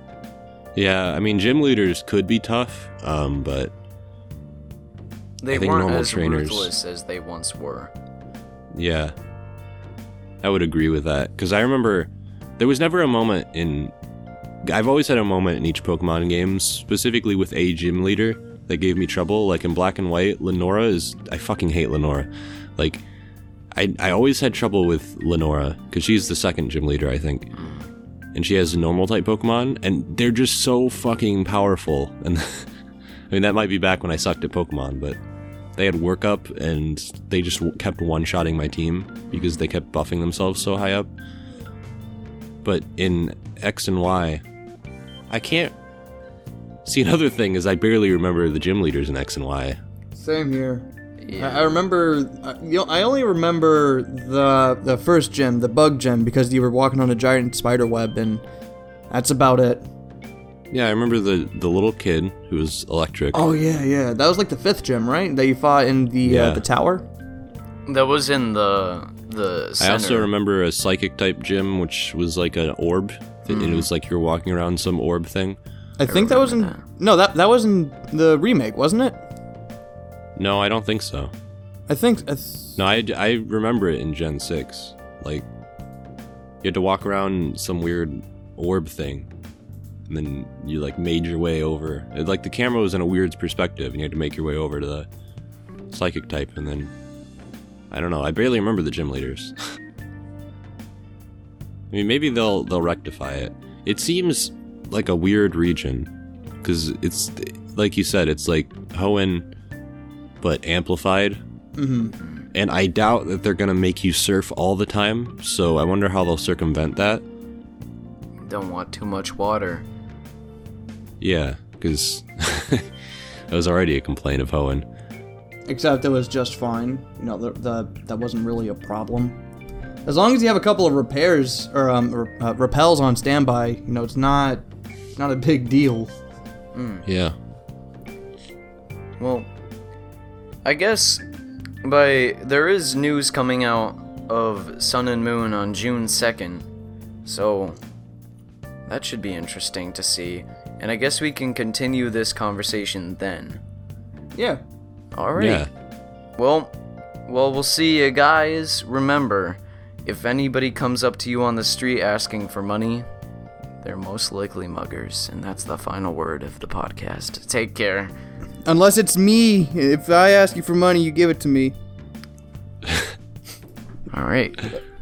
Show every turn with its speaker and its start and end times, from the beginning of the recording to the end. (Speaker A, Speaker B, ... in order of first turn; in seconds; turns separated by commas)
Speaker A: 0.7-3.7, Speaker B: 5.4-7.9, Speaker A: 5.5-6.7, Speaker A: 8.7-9.1, Speaker A: 10.4-13.9, Speaker A: 14.6-23.0, Speaker A: 23.7-27.5, Speaker B: 27.5-27.9, Speaker A: 28.3-32.7, Speaker A: 33.3-35.2, Speaker A: 35.8-41.1, Speaker A: 42.6-44.4, Speaker A: 45.3-45.7, Speaker A: 46.8-49.8, Speaker C: 50.1-50.9, Speaker B: 51.2-51.8, Speaker C: 51.4-58.4, Speaker C: 59.1-59.8, Speaker A: 60.7-63.4, Speaker C: 63.3-67.0, Speaker A: 66.2-66.6, Speaker B: 67.9-70.3, Speaker A: 69.8-75.6, Speaker B: 73.5-73.9, Speaker C: 76.0-79.2, Speaker B: 76.1-76.8, Speaker A: 80.3-81.3, Speaker C: 81.9-82.8, Speaker A: 82.8-85.5, Speaker A: 86.6-89.3, Speaker A: 90.1-95.1, Speaker A: 95.9-96.9, Speaker A: 97.9-99.5, Speaker A: 101.9-106.1, Speaker A: 106.6-109.5, Speaker A: 110.4-111.4, Speaker C: 111.8-112.1, Speaker A: 112.5-117.2, Speaker B: 118.4-119.8, Speaker A: 121.2-122.9, Speaker A: 123.5-124.8, Speaker C: 125.7-129.4, Speaker C: 130.0-134.6, Speaker C: 135.2-136.1, Speaker B: 136.7-137.1, Speaker A: 137.1-137.3, Speaker B: 139.2-139.5, Speaker B: 140.6-141.2, Speaker B: 141.8-146.7, Speaker B: 147.2-147.8, Speaker B: 148.9-153.6, Speaker C: 154.3-154.6, Speaker B: 155.1-155.7, Speaker A: 155.3-155.7, Speaker B: 156.4-156.7, Speaker B: 157.2-163.1, Speaker B: 163.8-168.1, Speaker C: 168.6-171.7, Speaker B: 174.1-174.7